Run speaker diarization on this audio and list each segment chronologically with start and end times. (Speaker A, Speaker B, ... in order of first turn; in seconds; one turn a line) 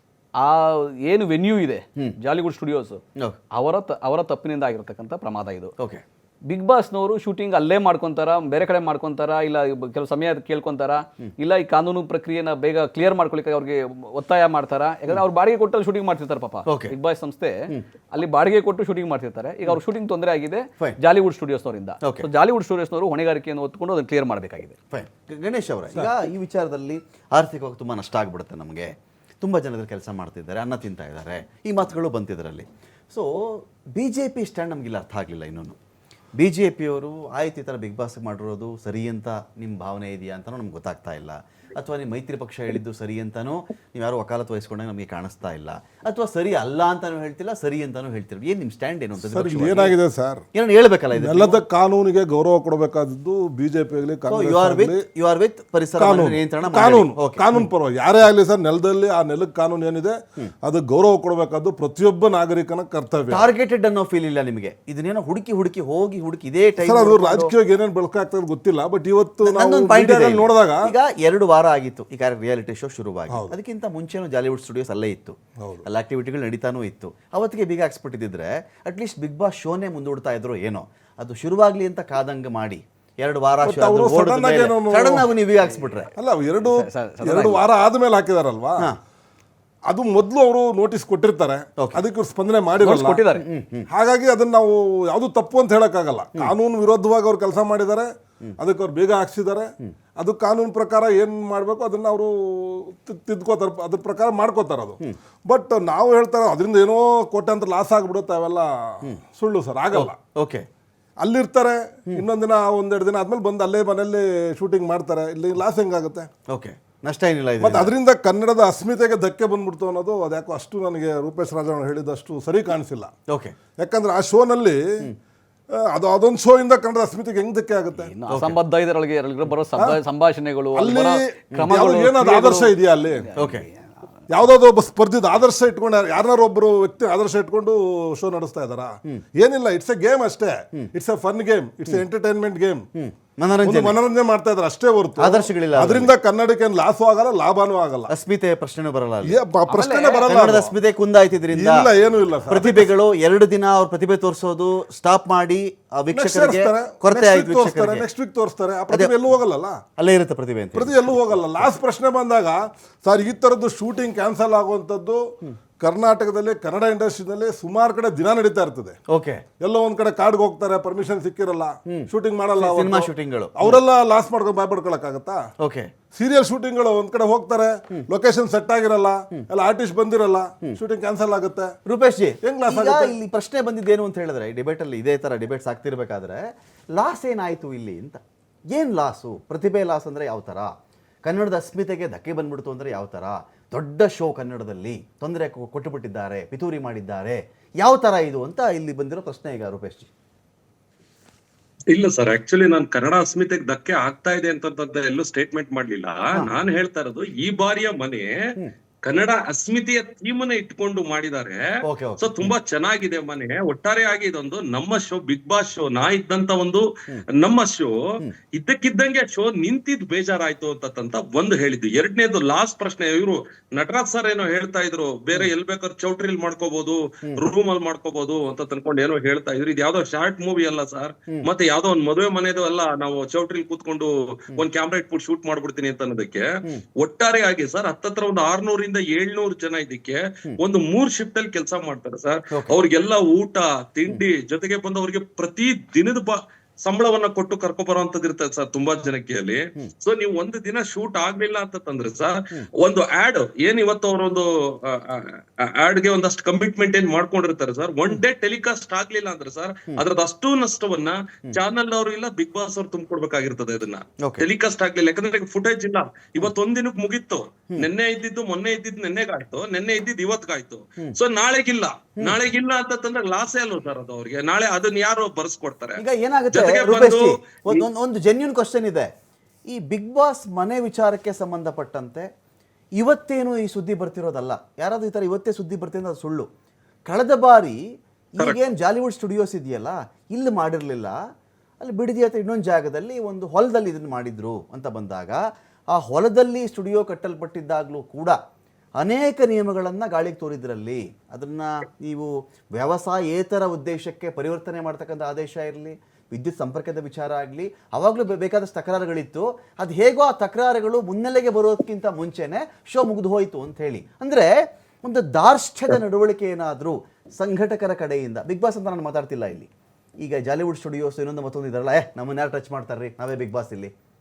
Speaker A: 0.4-3.0
Speaker A: 3.5-5.7
Speaker A: 6.5-24.8
Speaker B: 16.7-16.9
Speaker B: 22.0-22.3
Speaker B: 24.9-33.3
Speaker B: 34.0-35.8
Speaker B: 36.4-50.0
Speaker C: 49.2-50.4
Speaker B: 50.5-51.6
Speaker C: 51.1-55.0
Speaker B: 54.3-57.5
Speaker C: 56.0-63.5
Speaker B: 63.3-67.5
Speaker C: 66.8-70.9
Speaker B: 69.4-86.1
Speaker C: 75.6-75.8
Speaker C: 83.6-85.3
Speaker C: 86.2-88.9
Speaker A: 86.6-87.6
Speaker C: 89.9-93.2
Speaker B: 91.8-92.0
Speaker A: 92.8-93.4
Speaker B: 93.4-93.9
Speaker C: 93.9-110.2
Speaker B: 109.9-110.7
Speaker C: 111.2-116.3
Speaker B: 116.5-117.9
Speaker C: 117.6-123.1
Speaker B: 123.3-123.6
Speaker C: 123.8-124.8
Speaker C: 125.7-128.1
Speaker A: 128.0-134.3
Speaker B: 128.3-128.6
Speaker C: 130.7-133.3
Speaker B: 133.4-133.7
Speaker C: 134.3-142.8
Speaker B: 143.0-144.0
Speaker C: 143.6-148.1
Speaker B: 145.2-146.1
Speaker B: 148.1-149.4
Speaker C: 149.2-150.7
Speaker A: 149.7-150.3
Speaker B: 150.2-151.9
Speaker C: 151.5-152.9
Speaker B: 152.5-158.1
Speaker C: 156.1-159.8
Speaker B: 160.0-161.7
Speaker C: 160.8-169.0
Speaker B: 169.1-169.4
Speaker C: 169.6-175.4
Speaker B: 171.9-173.8
Speaker B: 175.6-175.9
Speaker C: 176.1-181.7
Speaker B: 181.9-186.4
Speaker C: 182.4-183.2
Speaker B: 187.0-188.2
Speaker B: 188.7-190.7
Speaker B: 191.2-200.1
Speaker D: 201.9-208.3
Speaker D: 209.1-211.7
Speaker B: 211.8-212.6
Speaker D: 212.2-218.0
Speaker D: 218.5-236.5
Speaker D: 237.0-277.8
Speaker B: 242.5-242.8
Speaker B: 276.0-279.1
Speaker B: 279.7-282.3
Speaker B: 283.0-286.5
Speaker B: 287.1-287.8
Speaker B: 288.4-291.2
Speaker B: 291.8-295.4
Speaker B: 295.9-298.4
Speaker B: 299.0-314.5
Speaker B: 315.0-319.7
Speaker B: 320.2-323.9